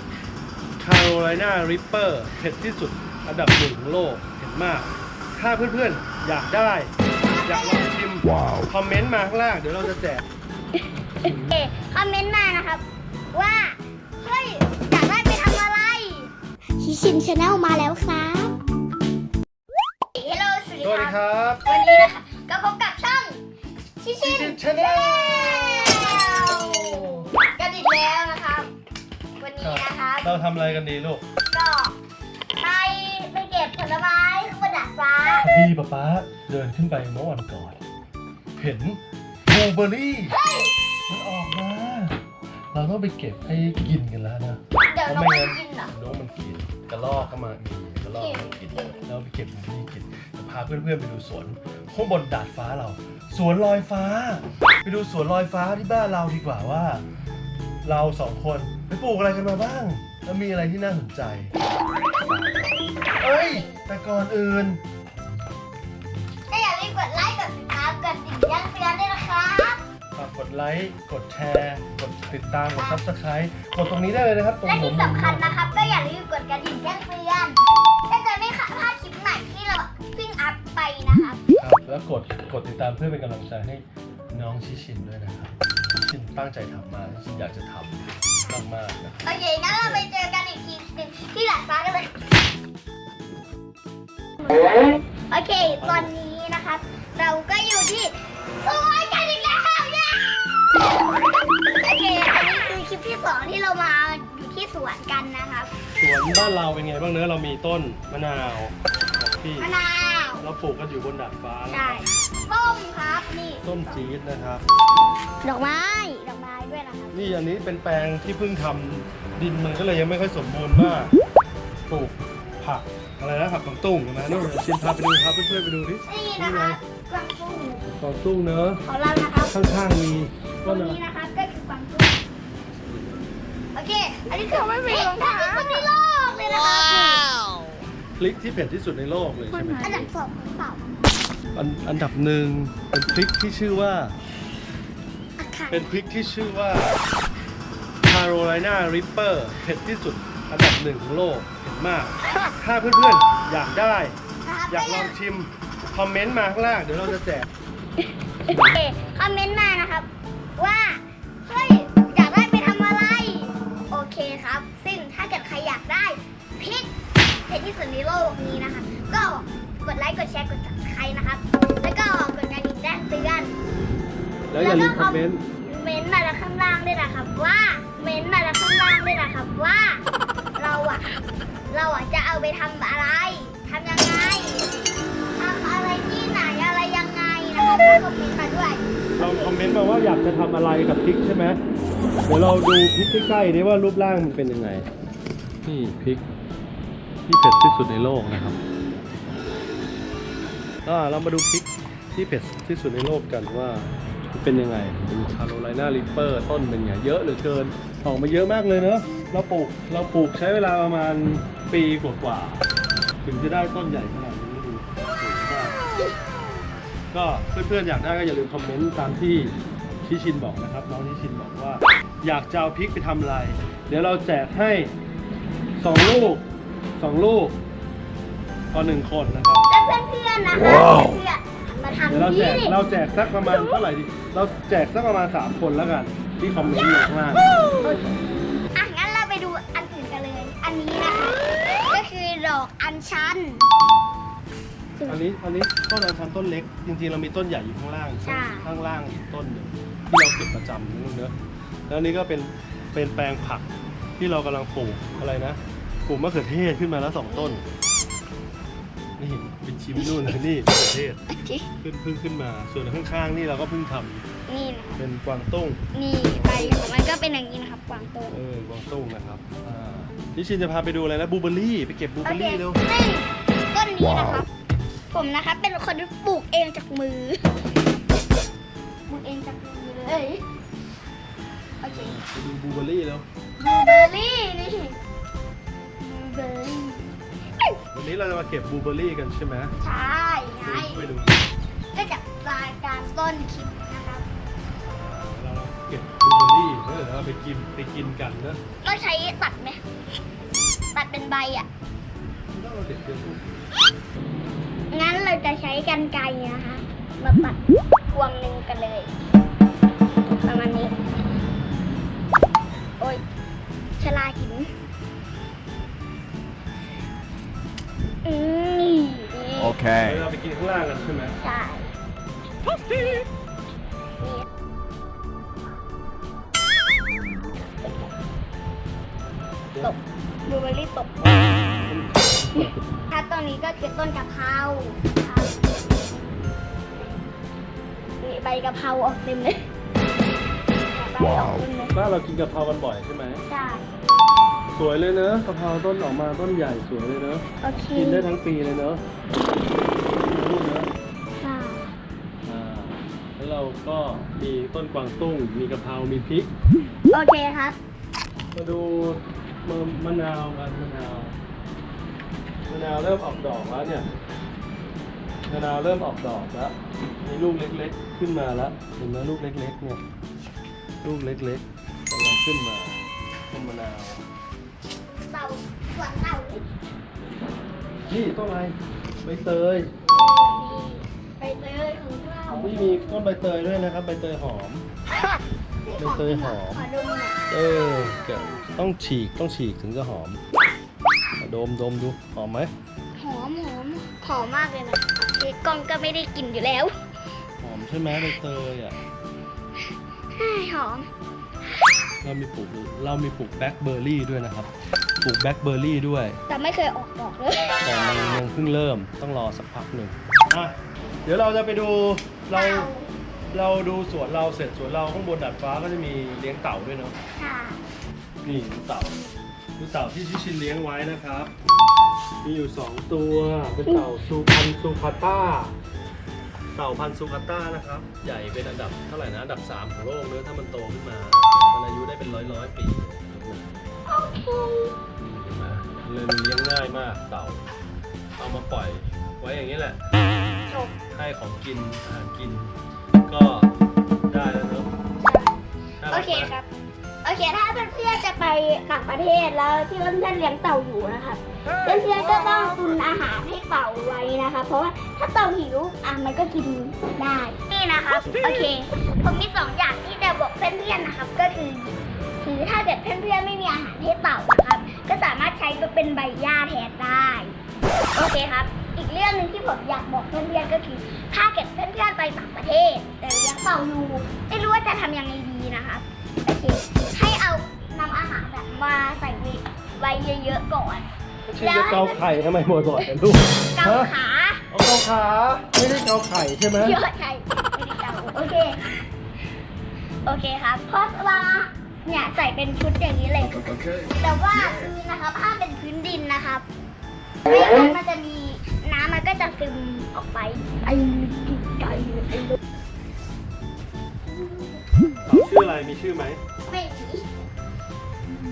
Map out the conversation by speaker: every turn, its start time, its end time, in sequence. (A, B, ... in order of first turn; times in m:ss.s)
0:00.8-0:06.9 A
0:07.2-0:07.9 B
0:07.4-0:10.2 A
0:11.2-0:18.6 B
0:20.2-0:23.4 B
0:20.8-0:21.6 A
0:24.0-0:28.7 B
0:24.2-0:26.3 A
0:29.4-0:30.4 B
0:29.6-0:31.2 A
0:31.5-0:32.0 B
0:32.6-0:35.7 B
0:35.4-0:37.8 A
0:38.6-0:40.4 A
0:40.3-0:40.8 B
0:41.1-0:42.2 A
0:42.7-0:57.0 A
0:44.8-0:45.9 B
0:48.1-0:49.0 B
0:57.8-1:01.5 A
1:03.2-1:03.9 B
1:03.2-1:04.8 A
1:06.5-1:09.8 B
1:10.1-1:15.6 A
1:14.6-1:21.4 B
1:21.6-1:30.1 A
1:29.2-1:32.3 B
1:34.4-1:34.8 B
1:35.3-1:41.1 B
1:35.6-1:36.2 A
1:41.8-1:45.7 B
1:46.0-1:49.7 A
1:49.6-1:50.5 B
1:50.4-1:52.1 A
1:51.7-1:53.8 B
1:53.6-1:54.6 A
1:55.4-1:57.4 B
1:57.1-2:01.1 A
2:01.9-2:06.8 A
2:06.0-2:07.8 B
2:07.9-2:08.8 A
2:08.8-2:09.6 B
2:09.5-2:11.0 A
2:10.6-2:12.2 B
2:12.8-2:13.1 A
2:13.7-2:17.4 B
2:18.2-2:20.1 A
2:19.8-2:20.8 B
2:21.5-2:24.2 A
2:25.4-2:25.8 B
2:25.7-2:27.0 A
2:28.0-2:34.1 A
2:34.4-2:35.1 B
2:34.7-2:37.5 A
2:38.4-2:46.9 B
2:47.5-2:53.6 B
2:54.5-2:55.4 A
2:54.6-3:00.0 B
3:00.6-3:01.1 B
3:01.7-3:04.7 B
3:05.4-3:09.3 B
3:09.2-3:11.6 A
3:12.3-3:14.9 A
3:15.6-3:16.2 A
3:17.3-3:18.6 A
3:20.8-3:32.6 A
3:33.2-3:35.8 A
3:37.1-3:44.9 A
3:45.8-3:46.4 A
3:46.0-3:46.3 B
3:47.0-3:47.6 A
3:48.7-3:49.6 A
3:49.7-3:52.8 B
3:52.1-3:57.5 A
3:57.8-3:58.1 B
3:58.7-4:03.7 B
4:05.0-4:05.2 B
4:05.0-4:11.3 A
4:08.2-4:08.7 B
4:11.9-4:17.6 A
4:17.3-4:17.6 B
4:19.2-4:21.2 A
4:20.0-4:20.4 B
4:21.3-4:21.7 B
4:21.8-4:24.2 A
4:24.5-4:25.0 B
4:25.0-4:25.8 A
4:25.9-4:28.4 B
4:26.3-4:26.9 A
4:28.3-4:32.8 A
4:32.2-4:34.5 B
4:35.1-4:37.5 B
4:39.1-4:40.4 B
4:41.8-4:42.2 B
4:41.9-4:43.2 A
4:43.6-4:45.0 B
4:46.0-4:47.7 B
4:47.8-4:49.7 A
4:49.8-4:51.1 B
4:50.6-4:51.4 A
4:51.9-4:54.2 B
4:54.8-4:58.6 A
4:58.8-4:59.8 B
5:00.9-5:01.7 B
5:02.5-5:03.7 A
5:04.9-5:07.6 B
5:08.1-5:09.2 B
5:10.3-5:10.9 B
5:13.0-5:13.2 B
5:14.0-5:14.7 B
5:18.2-5:19.9 B
5:19.9-5:21.4 A
5:21.4-5:21.9 B
5:22.9-5:23.2 B
5:24.2-5:24.4 B
5:27.6-5:28.1 B
5:29.8-5:31.4 B
5:31.2-5:32.8 A
5:32.5-5:35.7 B
5:38.2-5:39.7 B
5:40.9-5:42.0 B
5:41.9-5:43.4 A
5:43.5-5:43.8 B
5:44.7-5:49.0 A
5:47.6-5:48.3 B
5:50.2-5:50.9 A
5:51.4-5:51.9 B
5:52.4-5:56.5 A
5:57.1-5:57.8 B
5:58.5-6:01.3 A
6:02.6-6:04.0 A
6:05.5-6:10.0 A
6:11.0-6:14.2 A
6:15.2-6:16.6 B
6:18.1-6:19.9 A
6:20.0-6:23.2 B
6:22.5-6:24.8 A
6:25.1-6:27.4 B
6:25.9-6:26.9 A
6:27.5-6:30.4 A
6:27.9-6:28.6 B
6:31.4-6:32.7 A
6:33.2-6:36.9 B
6:37.6-6:39.0 A
6:40.4-6:41.1 B
6:42.2-6:46.4 A
6:46.5-6:48.4 B
6:47.8-6:52.9 A
6:52.5-6:53.1 B
6:53.5-6:57.1 A
6:57.4-6:57.8 B
6:58.4-6:59.2 A
6:59.8-7:01.5 A
7:02.4-7:05.7 A
7:06.7-7:13.8 A
7:14.1-7:15.0 B
7:15.2-7:17.6 A
7:18.4-7:20.0 A
7:20.7-7:21.0 B
7:21.1-7:22.7 A
7:23.3-7:23.7 A
7:24.3-7:24.9 A
7:25.2-7:25.5 B
7:26.0-7:26.5 A
7:26.1-7:26.7 B
7:27.2-7:47.6 B
7:48.2-8:01.1 B
8:01.5-8:04.1 A
8:01.6-8:02.3 B
8:03.7-8:04.6 B
8:04.7-8:07.0 A
8:06.8-8:08.8 B
8:10.2-8:16.6 B
8:17.4-8:22.6 B
8:24.3-8:24.8 B
8:25.2-8:26.4 A
8:26.6-8:27.2 B